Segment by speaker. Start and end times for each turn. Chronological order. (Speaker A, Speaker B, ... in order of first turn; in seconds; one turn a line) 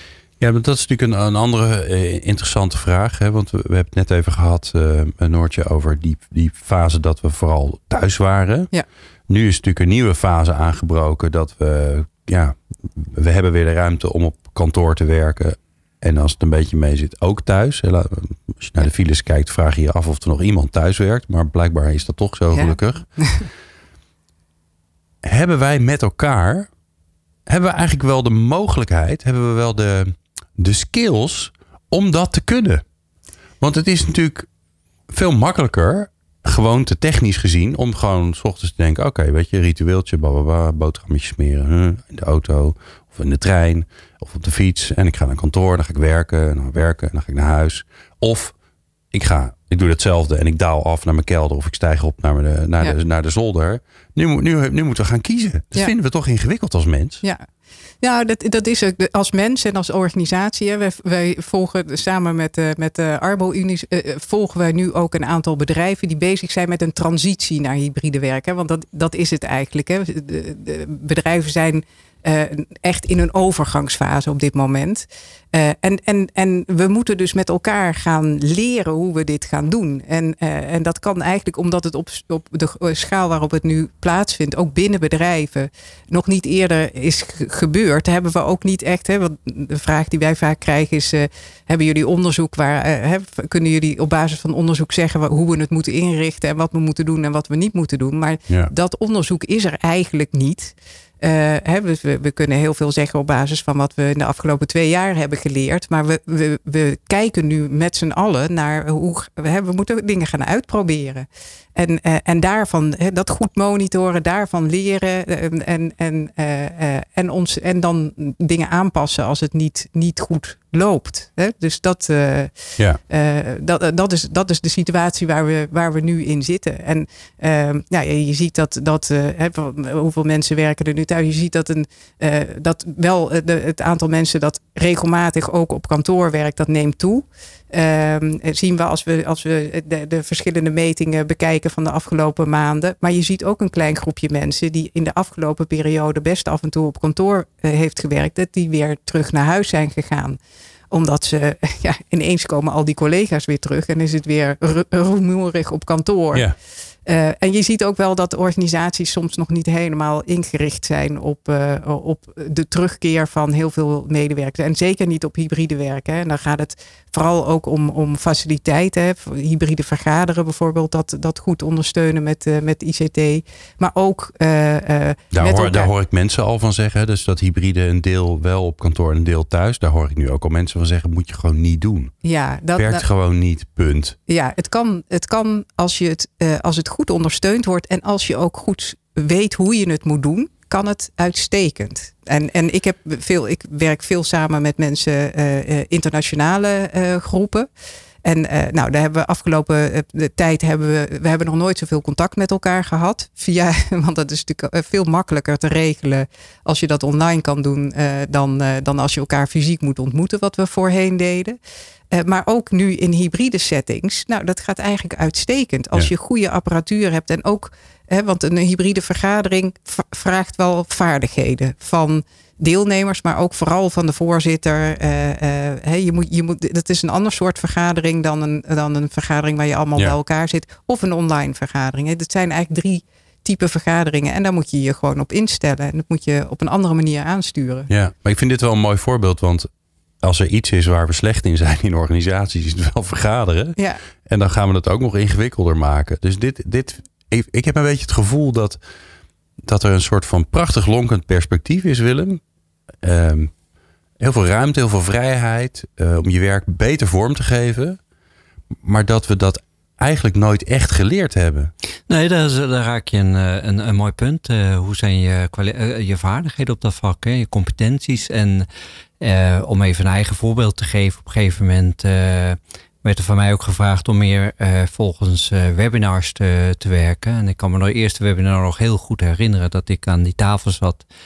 Speaker A: 0.4-8.7
Speaker A: 9.3-23.1
Speaker B: 22.5-23.5
Speaker A: 25.2-26.7
Speaker A: 27.5-32.8
Speaker A: 33.6-34.5
Speaker A: 35.1-48.5
Speaker A: 49.1-57.2
Speaker B: 58.0-150.4
Speaker B: 150.9-156.5
Speaker B: 157.1-175.9
Speaker A: 175.3-182.1
Speaker B: 182.2-183.0
Speaker A: 182.8-184.2
Speaker B: 184.3-197.7
Speaker B: 198.2-211.6
Speaker B: 212.1-237.9
Speaker A: 237.9-239.7
Speaker A: 240.2-248.8
Speaker B: 243.8-244.0
Speaker A: 249.6-252.4
Speaker A: 253.0-253.5
Speaker A: 254.2-258.0
Speaker A: 258.8-261.7
Speaker C: 262.1-268.7
Speaker C: 269.2-281.1